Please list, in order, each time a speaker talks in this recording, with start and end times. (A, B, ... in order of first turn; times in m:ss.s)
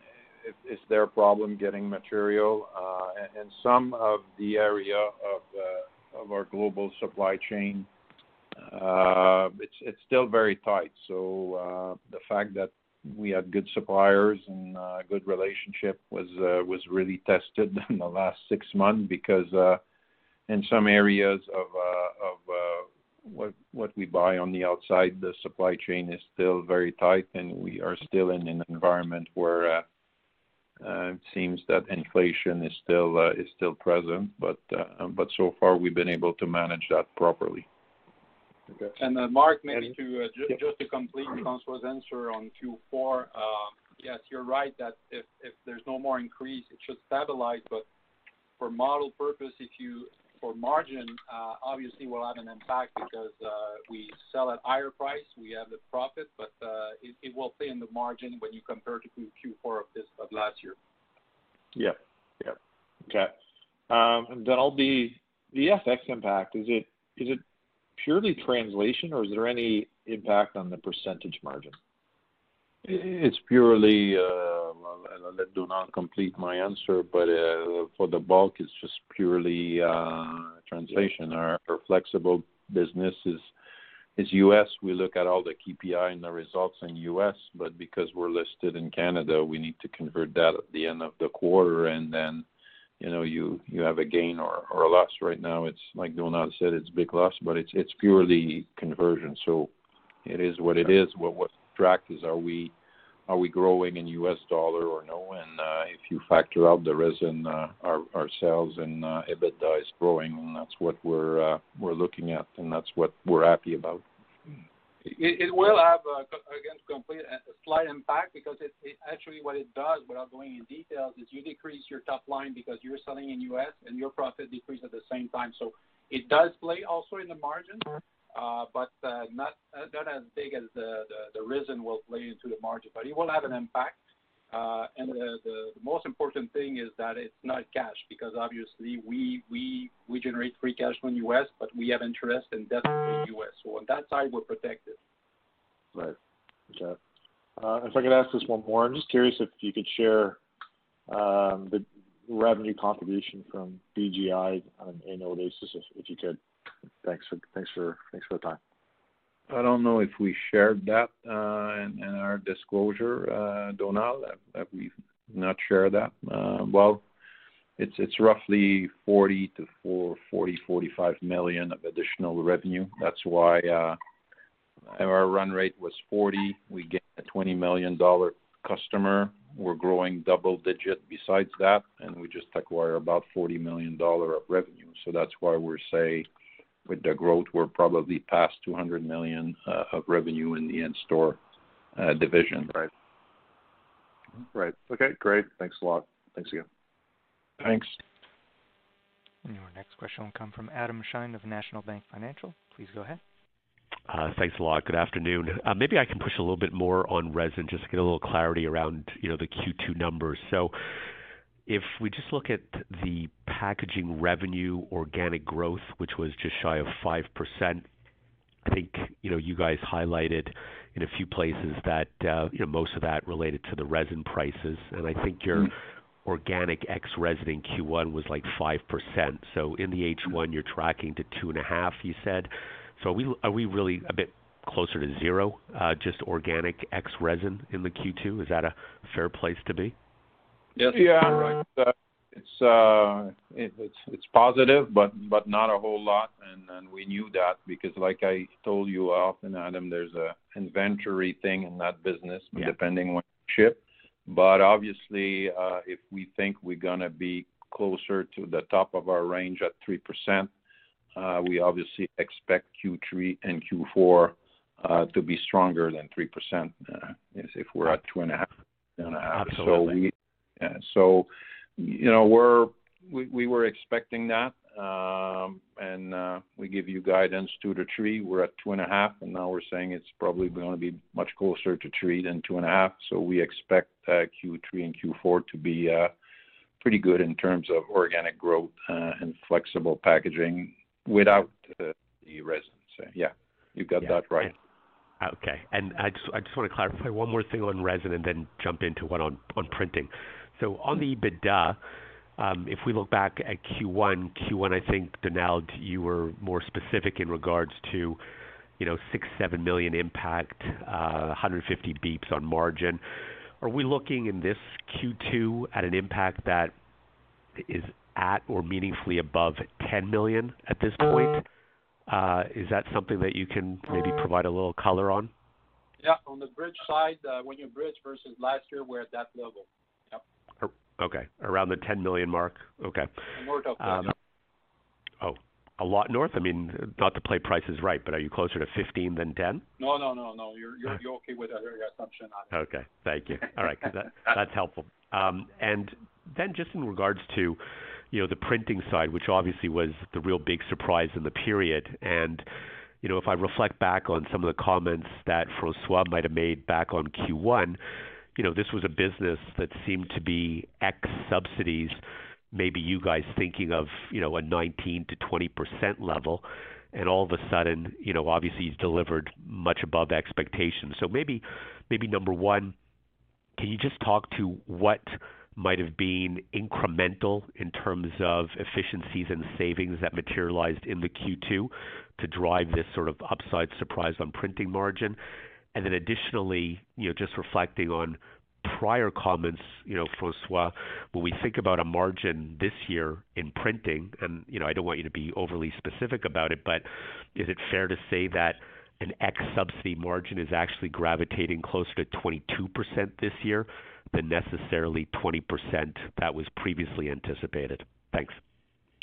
0:00.4-0:07.9 A
0:08.6-0:19.8 A
0:20.5-0:29.9 A
0:30.8-0:37.7 A
0:39.0-0:47.9 B
0:48.6-1:00.8 B
1:01.8-1:03.4 C
1:03.9-1:07.4 C
1:08.0-1:11.8 C
1:12.8-1:23.4 A
1:24.2-1:32.4 A
1:33.0-1:39.7 A
1:40.2-1:42.8 A
1:43.3-1:54.0 A
1:55.0-2:14.0 B
2:14.5-2:25.0 B
2:26.7-2:27.0 C
2:27.6-2:30.4 C
2:31.1-2:36.4 C
2:37.0-2:38.6 C
2:39.5-2:47.0 A
2:47.8-2:54.0 A
2:54.9-3:06.3 A
3:06.9-3:11.4 A
3:12.0-3:12.7 A
3:14.5-3:16.7 C
3:17.6-3:18.0 A
3:19.4-3:23.2 D
3:24.1-3:30.7 E
3:31.7-3:37.9 E
3:38.7-3:45.7 E
3:46.2-4:00.0 E
4:00.8-4:01.6 B
4:00.9-4:20.5 A
4:21.2-4:46.1 A
4:29.4-4:30.0 E
4:46.8-4:54.6 A
4:54.1-4:54.5 E
4:55.2-5:01.8 E
5:02.4-5:08.2 E
5:08.8-5:13.0 E
5:13.6-5:16.7 E
5:17.6-5:21.4 E
5:22.1-5:25.3 E
5:26.0-5:30.2 B
5:30.6-5:33.1 E
5:33.4-5:34.1 B
5:33.8-5:34.1 E
5:35.2-5:39.6 E
5:39.8-5:42.5 B
5:42.5-5:47.6 E
5:43.4-5:43.7 B
5:48.1-5:52.5 E
5:53.0-5:57.8 E
5:58.4-6:02.0 E
6:02.5-6:12.8 E
6:13.6-6:25.2 E
6:25.7-6:48.4 E